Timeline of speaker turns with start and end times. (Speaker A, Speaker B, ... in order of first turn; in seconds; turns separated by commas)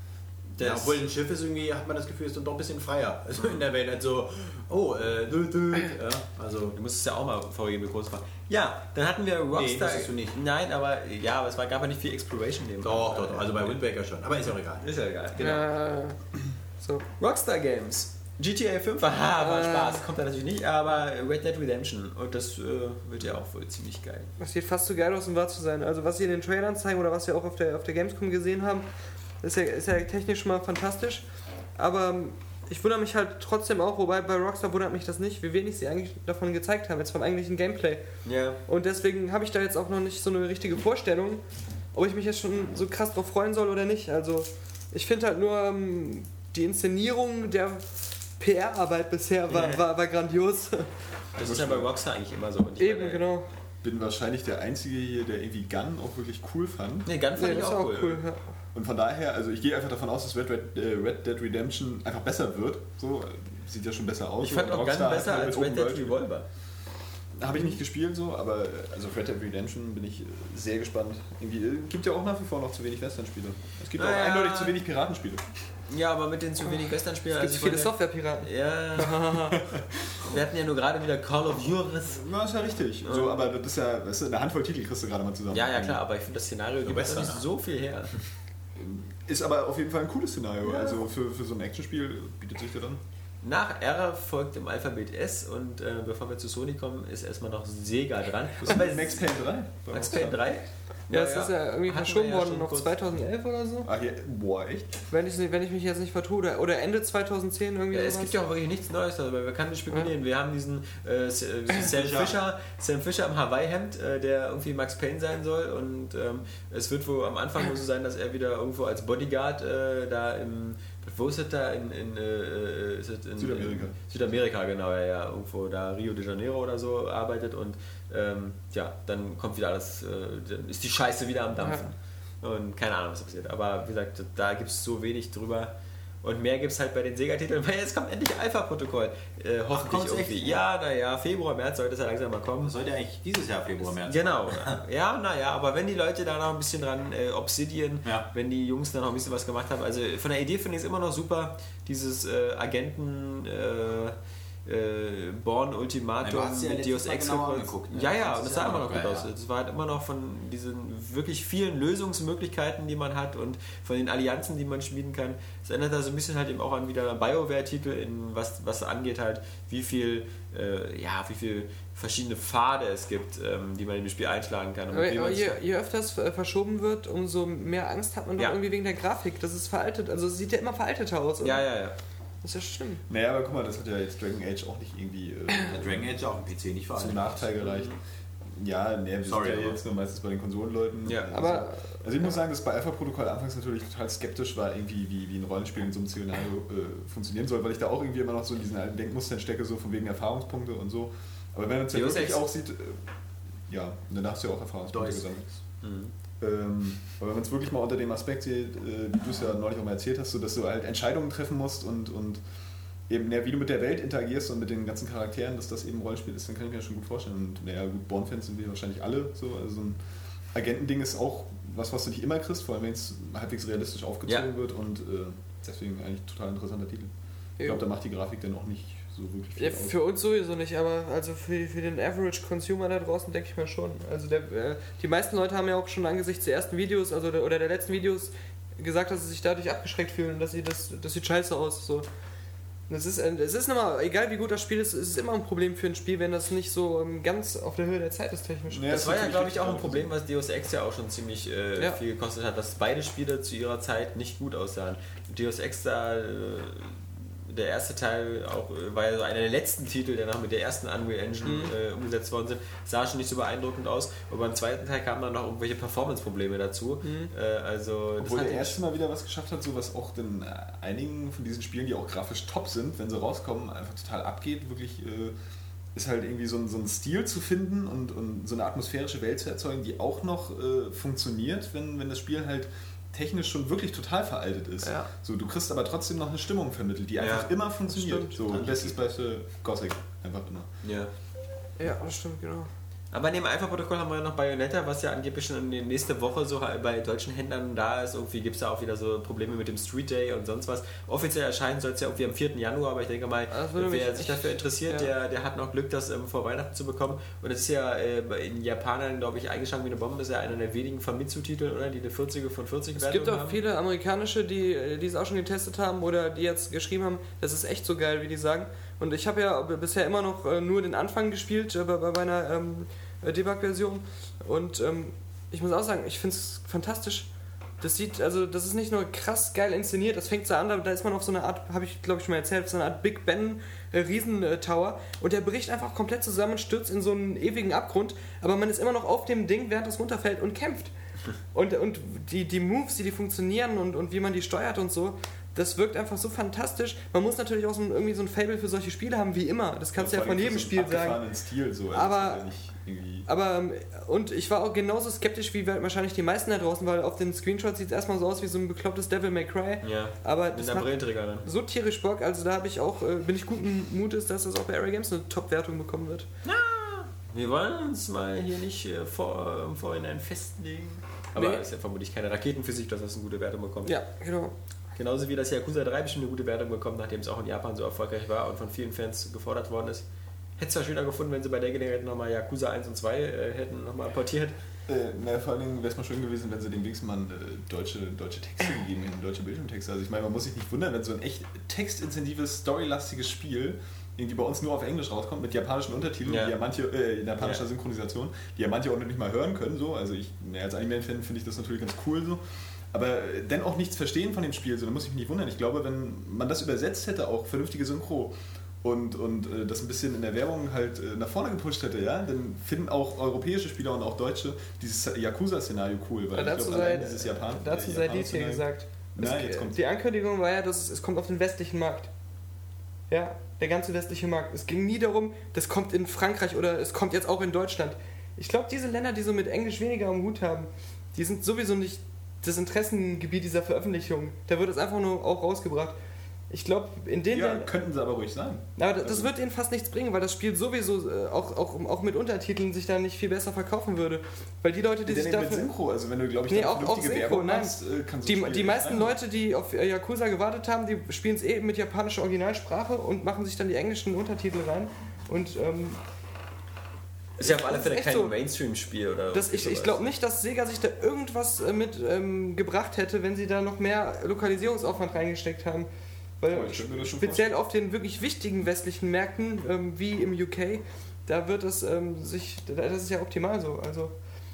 Speaker A: 0.6-1.0, Speaker B: 0.6-6.8, Speaker A: 6.8-13.8, Speaker B: 9.5-10.4, Speaker B: 12.8-15.7, Speaker A: 14.8-15.4, Speaker C: 15.4-16.2, Speaker A: 17.2-24.3, Speaker C: 19.4-20.0, Speaker C: 24.4-28.9, Speaker C: 29.4-31.2, Speaker C: 31.8-38.0, Speaker A: 38.2-38.6, Speaker C: 38.7-41.4, Speaker C: 41.9-50.9, Speaker A: 49.5-49.8, Speaker A: 51.4-53.3, Speaker D: 51.4-51.9, Speaker C: 52.8-53.5, Speaker D: 53.8-57.1, Speaker A: 57.1-58.2, Speaker C: 57.4-58.4, Speaker D: 58.7-66.2, Speaker A: 64.4-66.5, Speaker D: 67.4-75.5, Speaker A: 74.0-74.8, Speaker A: 75.9-79.2, Speaker C: 77.3-79.6, Speaker D: 79.6-79.8, Speaker A: 80.2-82.2, Speaker D: 82.1-86.0, Speaker A: 83.0-83.5, Speaker A: 85.5-88.2, Speaker B: 86.9-87.4, Speaker D: 88.8-93.0, Speaker C: 90.7-91.0, Speaker A: 93.4-99.4, Speaker D: 98.6-100.5, Speaker A: 99.9-103.0, Speaker C: 101.1-103.9, Speaker D: 103.8-105.0, Speaker C: 105.1-108.3, Speaker A: 107.9-142.7, Speaker B: 111.8-112.4, Speaker D: 123.4-124.0, Speaker C: 131.6-131.9, Speaker B: 139.7-140.7, Speaker B: 142.6-144.8, Speaker A: 143.8-175.6, Speaker B: 156.2-159.3, Speaker C: 174.9-181.7, Speaker A: 181.4-181.9, Speaker C: 182.4-183.0, Speaker D: 183.1-186.2, Speaker B: 185.7-187.5, Speaker D: 186.9-188.0, Speaker A: 187.7-188.0, Speaker D: 188.6-203.0, Speaker B: 189.3-189.8, Speaker A: 191.1-191.3, Speaker C: 191.3-192.3, Speaker A: 201.9-202.4, Speaker D: 203.7-205.7, Speaker B: 204.9-205.3, Speaker A: 205.8-206.1, Speaker D: 206.4-212.4, Speaker D: 213.1-220.0, Speaker D: 220.5-230.0, Speaker C: 227.6-227.8, Speaker C: 229.6-242.1, Speaker C: 242.9-249.0, Speaker D: 248.7-250.1, Speaker A: 248.9-268.8, Speaker C: 261.4-261.7, Speaker C: 267.0-267.3, Speaker D: 268.2-275.4, Speaker D: 275.9-290.7, Speaker C: 284.8-285.1, Speaker A: 287.2-287.5, Speaker C: 287.9-288.4, Speaker B: 288.4-289.0, Speaker A: 290.8-291.1, Speaker C: 291.8-292.7, Speaker A: 293.1-313.6, Speaker C: 303.5-305.1, Speaker C: 313.0-327.3, Speaker C: 327.8-340.9, Speaker C: 341.5-351.2, Speaker D: 349.9-353.3, Speaker C: 351.9-352.4, Speaker C: 353.3-360.9, Speaker A: 359.8-361.5, Speaker C: 361.4-366.3, Speaker A: 366.4-374.0, Speaker C: 371.4-371.6, Speaker C: 373.9-374.5, Speaker A: 374.9-380.0, Speaker A: 380.6-384.6, Speaker D: 384.9-419.8, Speaker A: 396.3-396.6, Speaker C: 416.4-422.1, Speaker C: 423.1-436.0, Speaker C: 436.5-437.7, Speaker D: 437.3-439.3, Speaker C: 438.8-445.7, Speaker D: 445.1-449.1, Speaker C: 446.5-447.7, Speaker C: 448.2-456.0, Speaker C: 457.4-458.3, Speaker A: 457.4-460.1, Speaker C: 459.3-465.9, Speaker C: 466.4-474.1, Speaker D: 466.5-467.5